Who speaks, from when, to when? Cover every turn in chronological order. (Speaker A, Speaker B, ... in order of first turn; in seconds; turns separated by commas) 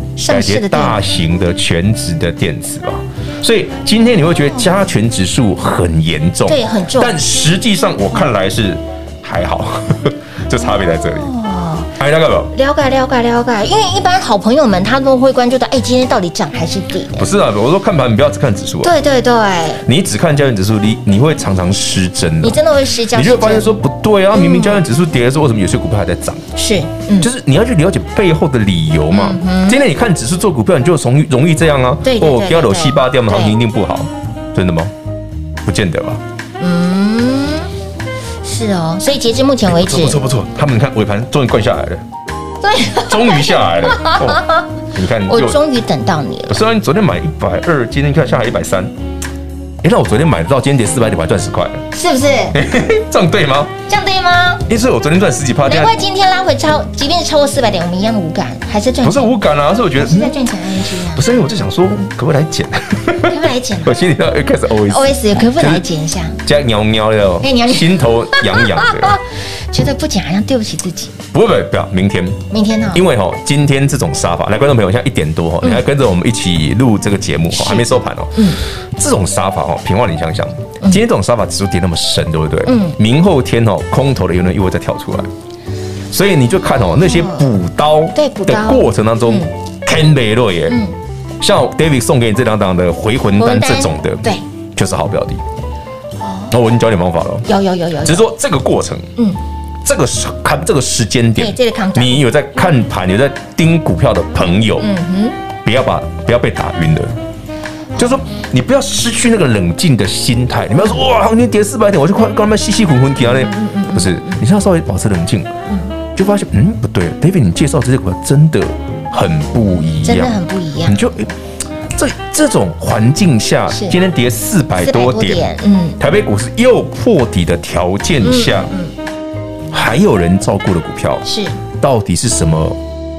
Speaker A: 0.2-1.0, Speaker B: 0.2-11.3, Speaker A: 6.5-7.2, Speaker A: 10.8-11.9, Speaker B: 12.0-12.5, Speaker A: 12.5-17.3, Speaker B: 17.1-18.9, Speaker A: 18.8-19.8, Speaker B: 19.8-22.6, Speaker A: 22.4-23.7, Speaker B: 23.1-26.5, Speaker A: 24.3-24.8, Speaker A: 26.6-27.3, Speaker B: 27.2-34.9, Speaker A: 29.1-29.8, Speaker A: 32.0-33.6, Speaker B: 35.6-36.2, Speaker A: 36.6-37.7, Speaker A: 38.4-40.2, Speaker B: 39.6-42.0, Speaker A: 42.6-44.7, Speaker B: 43.0-45.6, Speaker A: 45.3-46.6, Speaker B: 46.5-48.9, Speaker B: 49.8-51.8, Speaker A: 51.9-52.6, Speaker B: 52.5-53.7, Speaker A: 53.9-54.6, Speaker B: 54.7-55.9, Speaker A: 55.7-59.4, Speaker B: 59.0-60.4, Speaker A: 60.0-61.3, Speaker B: 61.1-65.8, Speaker A: 63.2-64.0, Speaker A: 64.9-66.4, Speaker B: 66.4-69.2, Speaker A: 67.4-69.2, Speaker A: 69.7-71.2, Speaker B: 71.3-85.3, Speaker A: 72.5-73.0, Speaker A: 77.5-78.6, Speaker A: 82.7-83.0, Speaker B: 86.1-90.8, Speaker A: 87.0-87.4, Speaker A: 88.1-89.5, Speaker A: 90.7-90.9, Speaker B: 91.4-94.2, Speaker A: 93.4-94.4, Speaker B: 94.8-95.4, Speaker A: 96.2-96.5, Speaker B: 96.5-97.5, Speaker A: 97.4-98.3, Speaker B: 98.0-99.1, Speaker B: 99.8-104.9, Speaker A: 101.4-102.3, Speaker A: 104.8-105.4, Speaker B: 105.6-107.1, Speaker B: 108.0-115.5, Speaker A: 113.3-114.4, Speaker B: 116.1-121.3, Speaker A: 120.0-121.0, Speaker B: 121.9-125.5, Speaker A: 123.7-124.0, Speaker A: 124.8-126.0, Speaker B: 126.0-128.7, Speaker A: 128.2-128.9, Speaker B: 129.7-131.3, Speaker A: 131.2-131.6, Speaker B: 131.8-132.8